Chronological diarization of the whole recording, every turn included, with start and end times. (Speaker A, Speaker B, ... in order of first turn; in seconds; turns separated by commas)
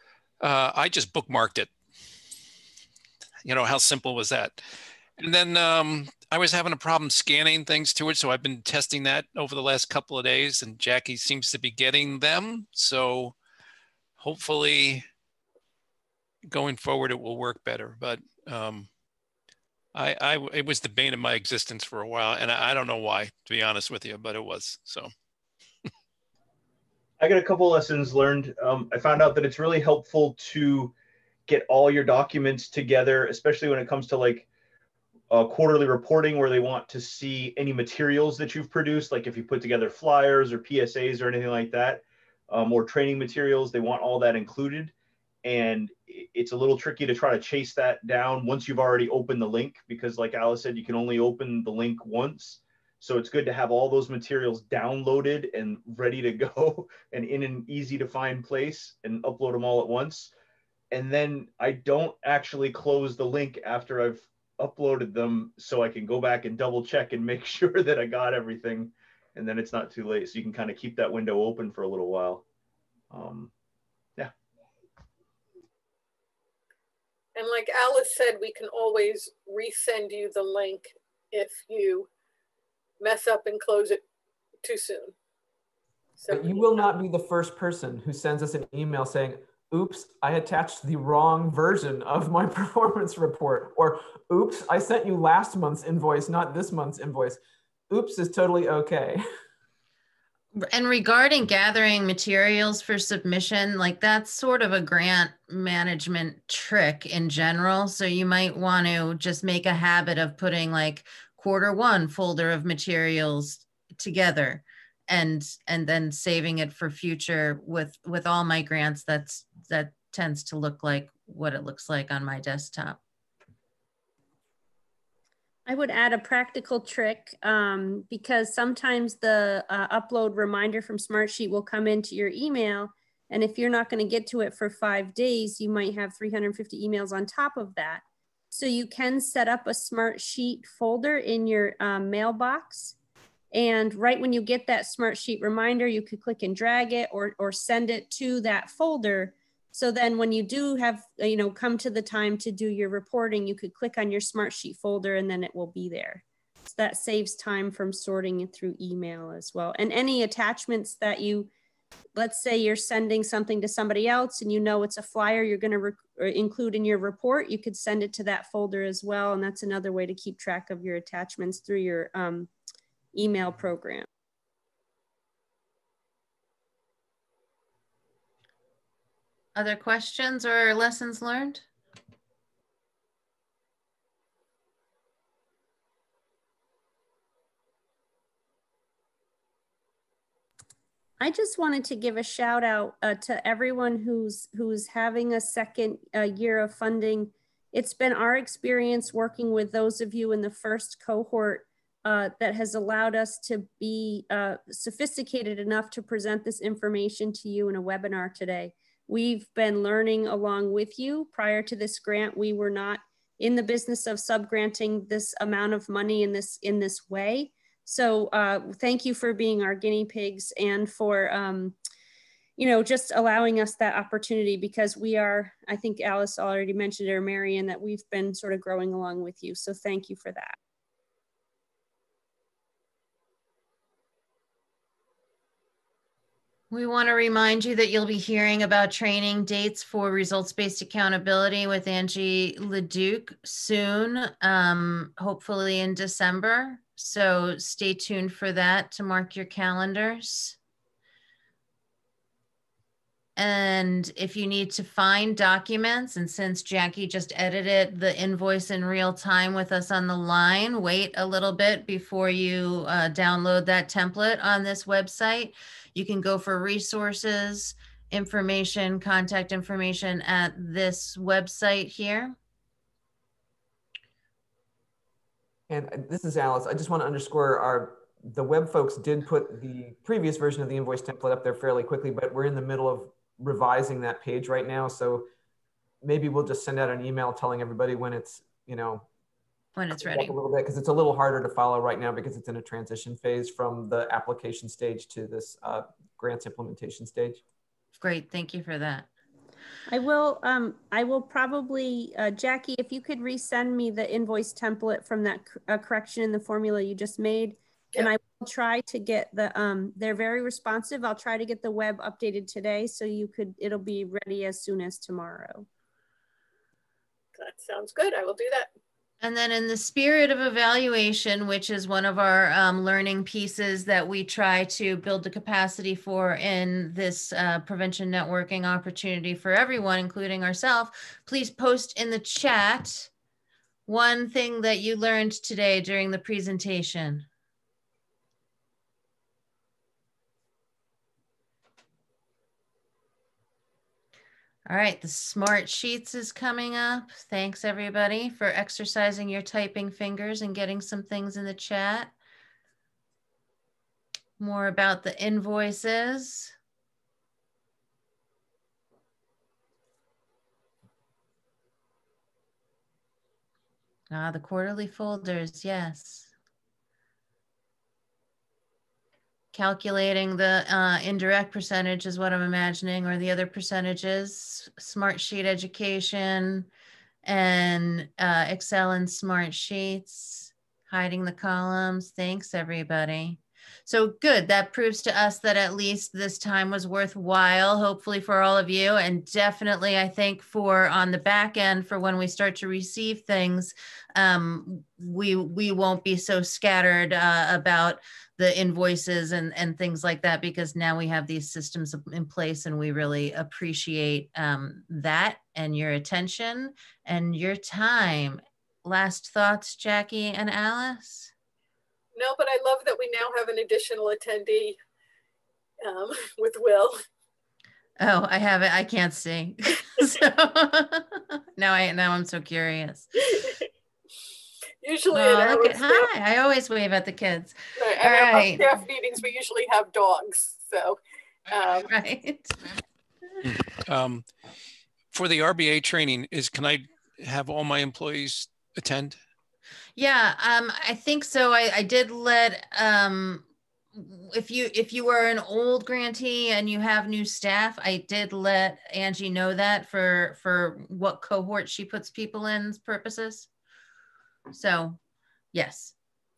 Speaker A: 0.4-1.7, Speaker A: 3.5-4.6, Speaker A: 5.2-13.3, Speaker A: 14.2-15.1, Speaker A: 16.5-18.9, Speaker A: 19.9-25.1, Speaker B: 27.2-30.9, Speaker B: 31.5-34.5, Speaker B: 35.3-60.3, Speaker B: 60.9-72.4, Speaker B: 73.1-73.5, Speaker C: 77.3-82.1, Speaker C: 83.0-84.0, Speaker C: 84.6-85.2, Speaker C: 86.2-86.9, Speaker D: 86.3-97.4, Speaker D: 97.9-99.2, Speaker E: 100.6-123.0, Speaker F: 125.7-142.9, Speaker F: 143.5-161.5, Speaker F: 162.2-172.5, Speaker F: 173.1-174.1, Speaker E: 179.6-181.7, Speaker F: 191.2-221.8, Speaker F: 222.6-230.6, Speaker E: 236.7-250.6, Speaker E: 253.4-272.4, Speaker D: 275.7-285.3, Speaker D: 286.0-289.1, Speaker E: 289.8-290.4, Speaker D: 289.9-297.4, Speaker E: 298.0-299.1, Speaker F: 299.9-315.7, Speaker C: 317.4-318.7, Speaker E: 319.2-333.1, Speaker E: 333.9-337.3, Speaker E: 344.7-352.1, Speaker E: 354.4-356.6, Speaker E: 364.1-366.3, Speaker E: 369.5-376.7, Speaker E: 377.2-411.3, Speaker C: 412.2-414.8, Speaker C: 415.8-416.9, Speaker E: 418.0-423.1, Speaker C: 423.3-423.6, Speaker C: 424.8-426.1, Speaker E: 425.1-428.7, Speaker C: 427.8-431.9, Speaker E: 431.7-432.6, Speaker A: 433.4-434.3, Speaker A: 435.1-439.2, Speaker E: 440.0-453.5, Speaker E: 454.5-455.0, Speaker E: 455.5-455.9